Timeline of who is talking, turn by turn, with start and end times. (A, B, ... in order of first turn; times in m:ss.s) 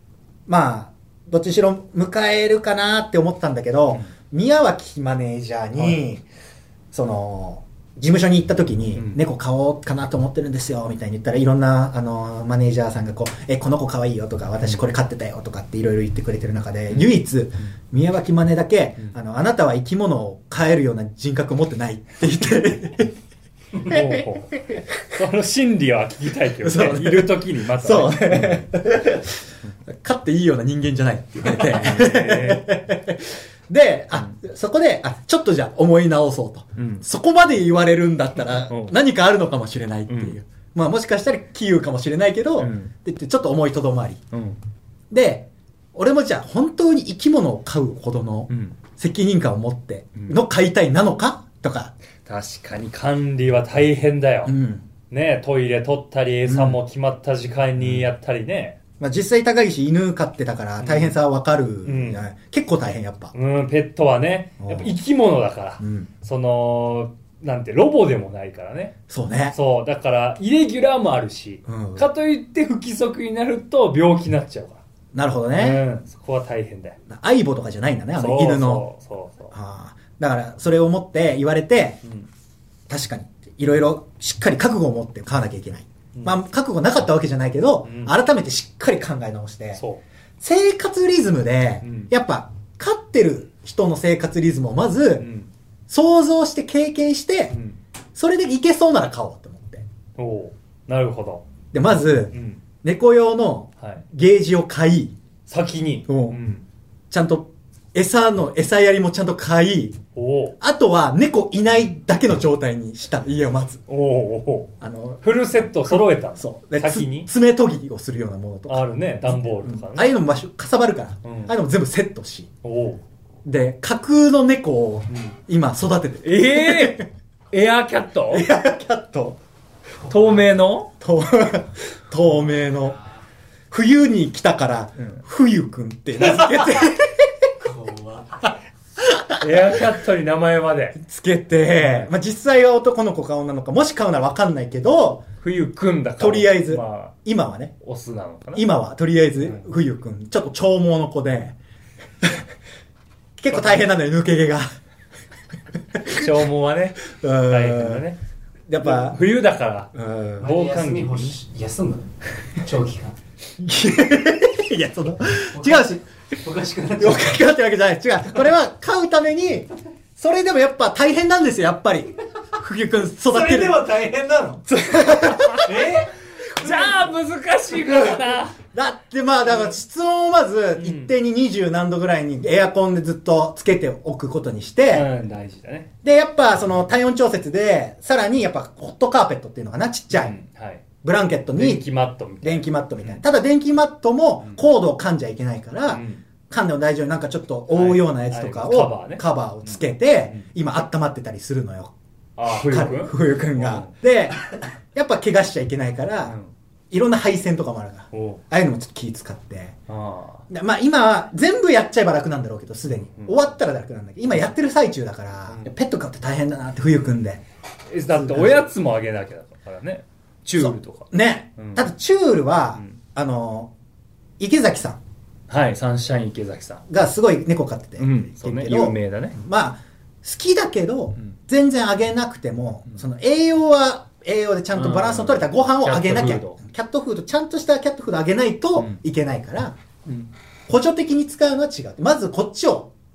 0:00.5-0:06.2 A
0:06.9-0:23.1 A
0:23.7-0:28.7 B
0:23.8-0:24.8 A
0:26.6-0:44.2 A
0:31.4-0:32.7 B
0:36.8-0:37.0 B
0:38.7-0:38.9 B
0:40.1-0:40.4 B
0:42.6-0:42.9 B
0:44.3-0:44.6 B
0:45.1-0:51.9 A
0:48.5-0:48.8 B
0:52.2-0:54.5 B
0:54.4-0:54.8 A
0:55.1-0:58.8 B
0:56.4-0:56.8 A
0:57.8-0:58.1 A
0:59.0-1:03.3 A
1:00.8-1:01.1 B
1:01.8-1:02.2 B
1:03.3-1:08.9 B
1:04.6-1:05.0 A
1:05.8-1:06.1 A
1:09.1-1:09.6 A
1:09.5-1:14.8 B
1:11.6-1:12.1 A
1:15.1-1:15.8 A
1:15.6-1:17.0 B
1:17.1-1:18.9 A
1:18.2-1:19.5 B
1:19.5-1:22.0 A
1:22.9-1:29.8 A
1:26.1-1:26.4 B
1:27.8-1:28.1 B
1:29.7-1:30.0 B
1:30.4-1:35.3 A
1:31.8-1:32.1 B
1:35.2-1:35.5 B
1:35.9-1:37.6 A
1:37.5-1:37.8 B
1:38.1-1:39.8 A
1:40.2-1:41.4 B
1:41.7-1:45.2 A
1:42.3-1:42.6 B
1:45.5-1:46.6 B
1:46.1-1:46.4 A
1:47.1-1:50.0 A
1:50.1-1:50.6 B
1:50.6-1:53.8 A
1:53.9-1:57.3 B
1:54.8-1:55.2 A
1:55.8-2:02.5 A
1:58.7-2:00.1 B
2:01.2-2:01.5 B
2:02.6-2:03.0 B
2:03.4-2:07.1 A
2:06.2-2:08.5 B
2:08.3-2:09.4 A
2:10.0-2:10.9 B
2:11.0-2:13.0 A
2:13.7-2:17.5 A
2:16.2-2:16.7 B
2:17.6-2:18.4 C
2:19.0-2:19.8 A
2:19.4-2:21.0 B
2:21.0-2:25.3 A
2:21.8-2:22.1 B
2:25.4-2:27.2 B
2:26.2-2:27.7 A
2:27.8-2:28.7 B
2:28.5-2:31.6 A
2:29.4-2:29.7 B
2:33.4-2:34.7 A
2:36.0-2:36.3 A
2:36.0-2:38.2 B
2:37.1-2:38.1 A
2:38.7-2:39.2 A
2:38.8-2:41.4 B
2:39.9-2:40.5 A
2:40.4-2:43.2 C
2:43.6-2:46.0 A
2:45.5-2:47.4 C
2:47.0-2:53.9 A
2:53.3-2:54.6 C
2:54.7-2:55.8 A
2:55.5-2:58.6 B
2:55.6-2:56.1 C
2:56.6-2:57.1 A
2:58.6-3:05.1 A
3:00.8-3:01.1 B
3:04.9-3:05.9 B
3:06.0-3:10.4 A
3:10.1-3:10.8 B
3:11.0-3:11.9 A
3:11.5-3:13.2 B
3:12.4-3:21.9 A
3:15.9-3:16.2 B
3:17.7-3:20.5 B
3:22.4-3:23.9 B
3:22.5-3:26.4 A
3:26.2-3:26.5 B
3:26.9-3:29.8 A
3:28.1-3:28.4 B
3:29.9-3:30.4 B
3:30.5-3:37.4 A
3:32.9-3:33.4 B
3:37.9-3:41.9 B
3:38.1-3:38.7 A
3:40.6-3:43.7 A
3:44.4-3:45.0 A
3:45.5-3:46.8 B
3:46.9-3:59.8 A
3:48.0-3:49.4 B
3:54.7-3:56.6 B
4:00.0-4:00.3 B
4:00.7-4:02.9 A